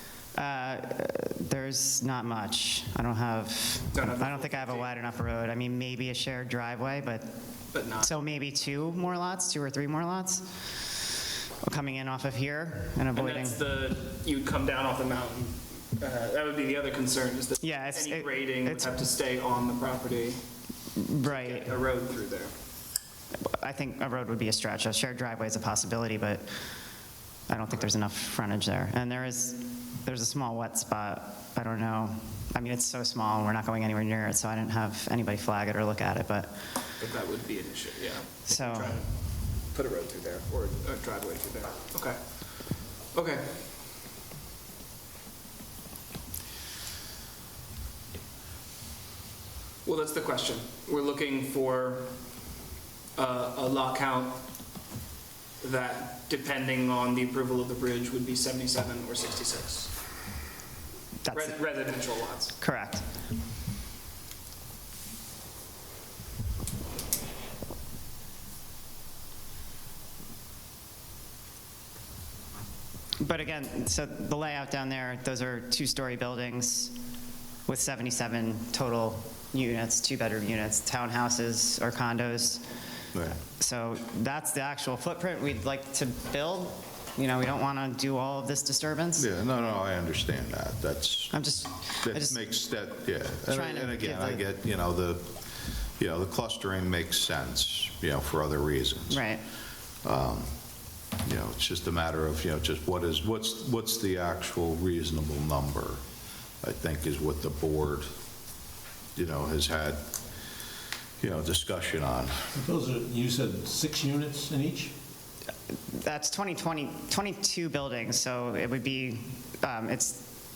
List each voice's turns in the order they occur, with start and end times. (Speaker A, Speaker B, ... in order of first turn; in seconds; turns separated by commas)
Speaker A: 0.3-7.3, Speaker B: 3.9-4.9, Speaker B: 7.7-8.1, Speaker A: 8.0-10.4, Speaker A: 11.6-13.6, Speaker B: 13.2-20.4, Speaker A: 17.6-18.9, Speaker A: 21.0-21.7, Speaker B: 21.2-22.5, Speaker A: 23.4-26.5, Speaker A: 27.5-36.5, Speaker B: 37.0-42.2, Speaker A: 38.5-39.0, Speaker B: 43.1-43.6, Speaker B: 49.9-52.1, Speaker B: 53.2-54.4, Speaker B: 55.6-59.9, Speaker A: 61.2-61.6, Speaker B: 61.3-62.5, Speaker A: 62.6-63.0, Speaker A: 73.2-76.9, Speaker A: 77.7-82.6, Speaker C: 83.1-83.4, Speaker A: 83.5-89.3, Speaker C: 89.2-91.4, Speaker A: 91.3-92.4, Speaker C: 92.0-95.3, Speaker A: 93.5-94.4, Speaker C: 96.0-99.3, Speaker A: 99.1-99.4, Speaker C: 100.0-100.5, Speaker C: 101.2-106.0, Speaker C: 106.6-108.1, Speaker C: 109.2-110.0, Speaker C: 111.2-112.5, Speaker D: 112.5-114.9, Speaker A: 115.9-120.3